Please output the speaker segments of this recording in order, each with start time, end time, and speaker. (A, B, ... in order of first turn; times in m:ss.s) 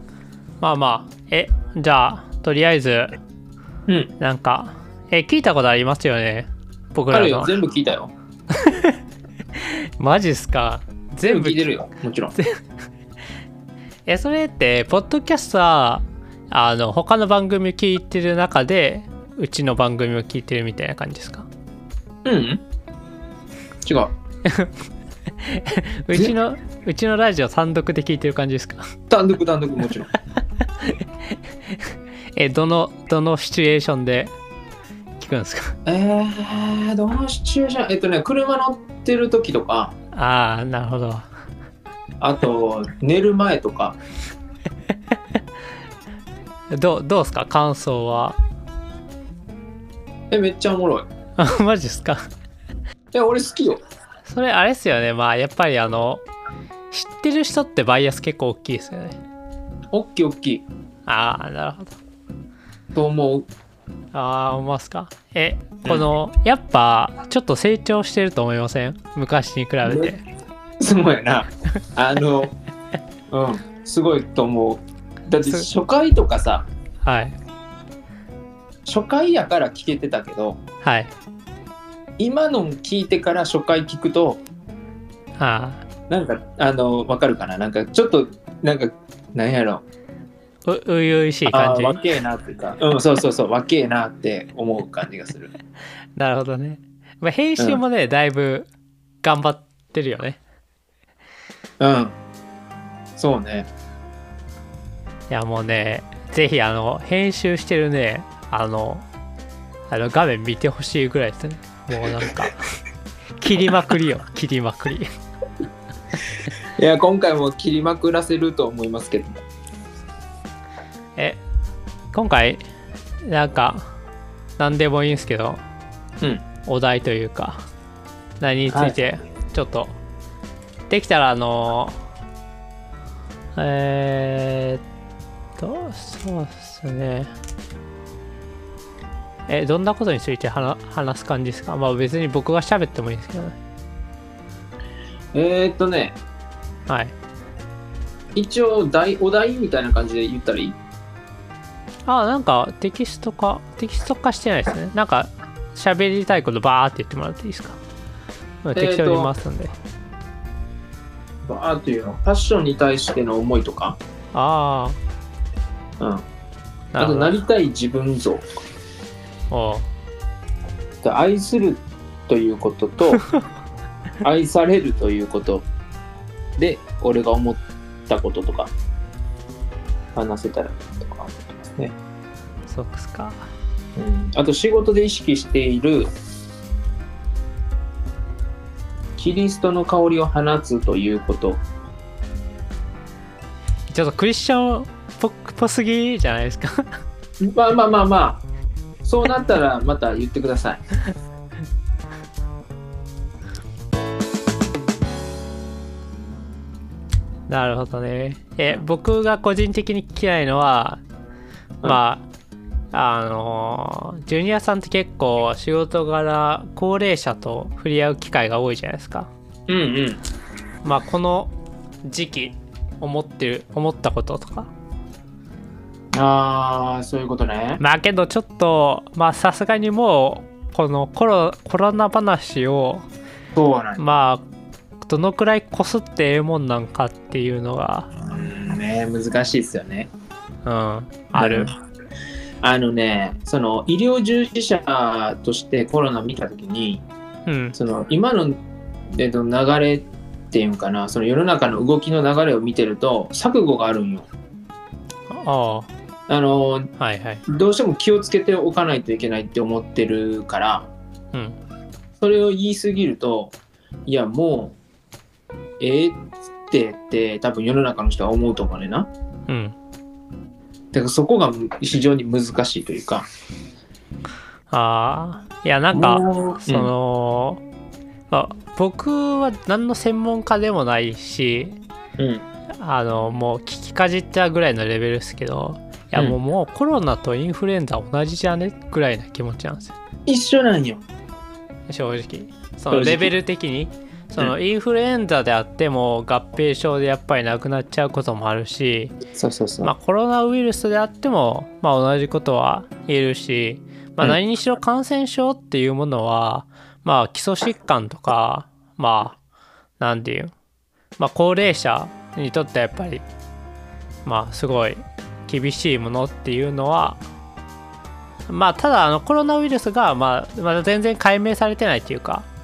0:00.6-0:03.2 A
0:04.2-0:07.6 A
0:07.1-0:08.1 B
0:08.5-0:09.0 A
0:09.6-0:11.7 A
0:11.2-0:12.4 B
0:14.1-0:21.5 A
0:22.2-0:22.6 B
0:23.8-0:24.1 B
0:24.4-0:24.7 A
0:25.4-0:28.9 A
0:29.1-0:30.1 B
0:32.4-0:34.3 A
0:35.2-0:35.8 A
0:35.9-0:40.0 B
0:40.1-0:41.3 A
0:42.2-0:44.0 B
0:46.7-0:48.4 A
0:50.3-0:51.1 B
0:51.4-0:52.3 A
0:53.1-0:53.8 B
0:54.3-0:56.2 A
0:56.9-0:59.2 A
0:59.9-1:00.6 B
1:01.1-1:02.0 A
1:02.9-1:03.5 B
1:04.1-1:10.2 A
1:09.8-1:10.1 B
1:10.8-1:12.5 B
1:13.3-1:16.7 B
1:17.0-1:17.4 A
1:18.8-1:20.6 B
1:20.8-1:21.1 A
1:22.2-1:24.4 B
1:25.4-1:25.8 A
1:26.1-1:29.8 B
1:30.7-1:32.0 A
1:31.5-1:35.5 B
1:36.2-1:38.7 A
1:39.2-1:40.4 A
1:41.8-1:42.2 B
1:43.2-1:43.7 B
1:45.3-1:49.1 A
1:49.9-1:52.8 A
1:53.4-1:55.1 A
1:56.8-1:59.4 B
2:02.1-2:02.6 A
2:03.2-2:03.9 A
2:04.6-2:05.6 A
2:06.6-2:07.6 A
2:08.4-2:10.0 A
2:08.7-2:09.0 B
2:10.9-2:12.0 A
2:13.6-2:14.8 A
2:15.6-2:17.3 A
2:19.5-2:23.6 A
2:25.3-2:26.2 B
2:26.9-2:27.2 A
2:28.4-2:30.8 B
2:32.1-2:37.8 A
2:38.6-2:39.8 A
2:38.8-2:39.3 B
2:41.4-2:44.0 B
2:44.3-2:45.0 A
2:46.0-2:46.2 B
2:46.9-2:47.4 A
2:47.0-2:48.5 B
2:49.5-2:49.9 A
2:51.0-2:53.2 B
2:54.2-2:55.7 B
2:56.6-2:58.7 B
3:00.2-3:02.0 B
3:02.7-3:03.5 A
3:04.0-3:06.1 B
3:09.2-3:11.6 B
3:13.9-3:17.0 A
3:17.4-3:18.4 B
3:19.0-3:20.8 B
3:27.5-3:31.0 A
3:31.8-3:32.3 A
3:32.9-3:39.3 A
3:39.7-3:40.2 B
3:40.8-3:41.5 A
3:42.1-3:44.7 A
3:46.1-3:47.8 B
3:47.8-3:53.1 A
3:53.6-3:54.0 B
3:54.0-3:54.4 A
3:55.0-3:58.1 A
3:58.3-4:00.1 B
4:00.6-4:01.7 A
4:01.4-4:01.8 B
4:02.6-4:07.0 B
4:07.5-4:07.8 A
4:07.8-4:08.6 B
4:09.1-4:14.3 B
4:15.3-4:15.9 A
4:16.3-4:16.9 B
4:17.0-4:17.4 A
4:17.5-4:20.9 B
4:22.2-4:23.6 B
4:24.1-4:24.8 B
4:25.8-4:29.1 B
4:29.5-4:29.8 A
4:30.9-4:33.3 B
4:34.7-4:37.6 A
4:35.9-4:36.9 B
4:38.3-4:41.8 A
4:42.2-4:42.4 B
4:42.8-4:50.0 A
4:50.3-4:51.0 B
4:51.9-4:59.2 A
4:52.9-4:53.3 B
4:59.4-4:59.9 B
4:59.8-5:09.4 A
5:10.0-5:10.5 A
5:11.2-5:13.2 A
5:14.2-5:17.2 A
5:18.5-5:22.5 A